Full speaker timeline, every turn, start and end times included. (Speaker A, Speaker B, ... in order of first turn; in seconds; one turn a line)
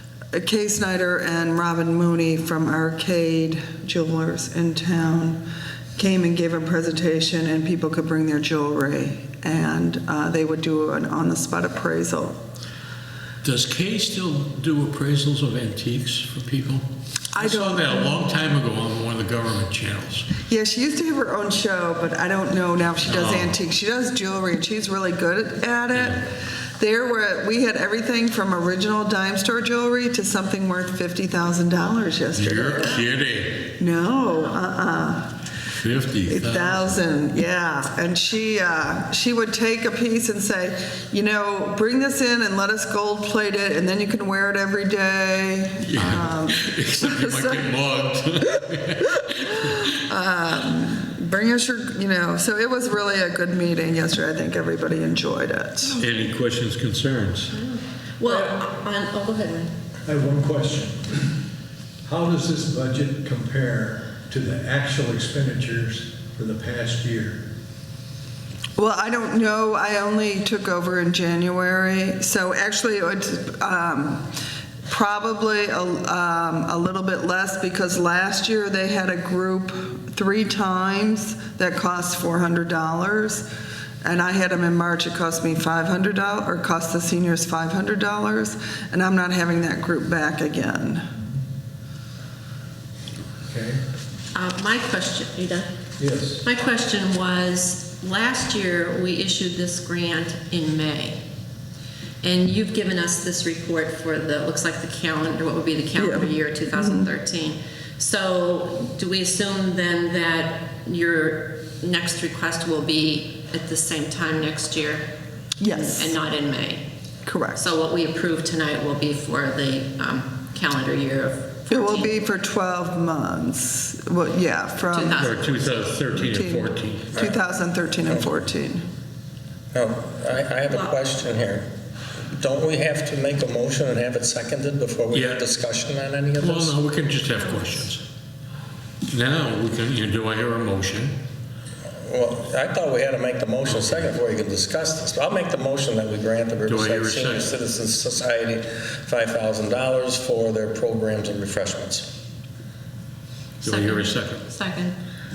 Speaker A: 0.3-5.4
Speaker A: 6.0-12.4
Speaker B: 13.4-16.8
Speaker A: 17.3-18.1
Speaker B: 17.4-20.3
Speaker C: 17.9-18.9
Speaker A: 20.5-33.0
Speaker B: 23.1-23.5
Speaker B: 32.3-33.7
Speaker A: 33.8-35.3
Speaker B: 35.8-36.9
Speaker A: 36.2-47.7
Speaker B: 45.9-49.1
Speaker C: 47.9-48.2
Speaker C: 49.3-49.7
Speaker A: 49.6-56.0
Speaker B: 56.0-57.5
Speaker C: 56.3-56.7
Speaker D: 57.5-59.7
Speaker C: 60.0-61.3
Speaker C: 62.0-67.4
Speaker A: 68.8-74.3
Speaker A: 74.9-83.5
Speaker A: 84.0-91.0
Speaker C: 93.4-93.8
Speaker D: 94.3-95.7
Speaker C: 96.0-96.4
Speaker D: 96.4-101.2
Speaker D: 102.2-115.1
Speaker A: 106.0-107.1
Speaker A: 115.6-116.1
Speaker D: 115.7-116.8
Speaker A: 117.2-117.6
Speaker D: 117.5-122.1
Speaker A: 121.7-125.4
Speaker D: 124.9-125.9
Speaker B: 125.2-126.9
Speaker A: 126.1-128.8
Speaker E: 128.1-128.3
Speaker E: 129.7-131.7
Speaker E: 132.3-136.8
Speaker B: 135.1-135.4
Speaker B: 136.4-138.0
Speaker C: 136.9-137.2
Speaker D: 137.4-137.8
Speaker B: 139.1-141.1
Speaker C: 140.1-140.4
Speaker E: 142.0-152.1
Speaker B: 146.7-147.5
Speaker B: 153.6-154.3
Speaker D: 153.6-154.9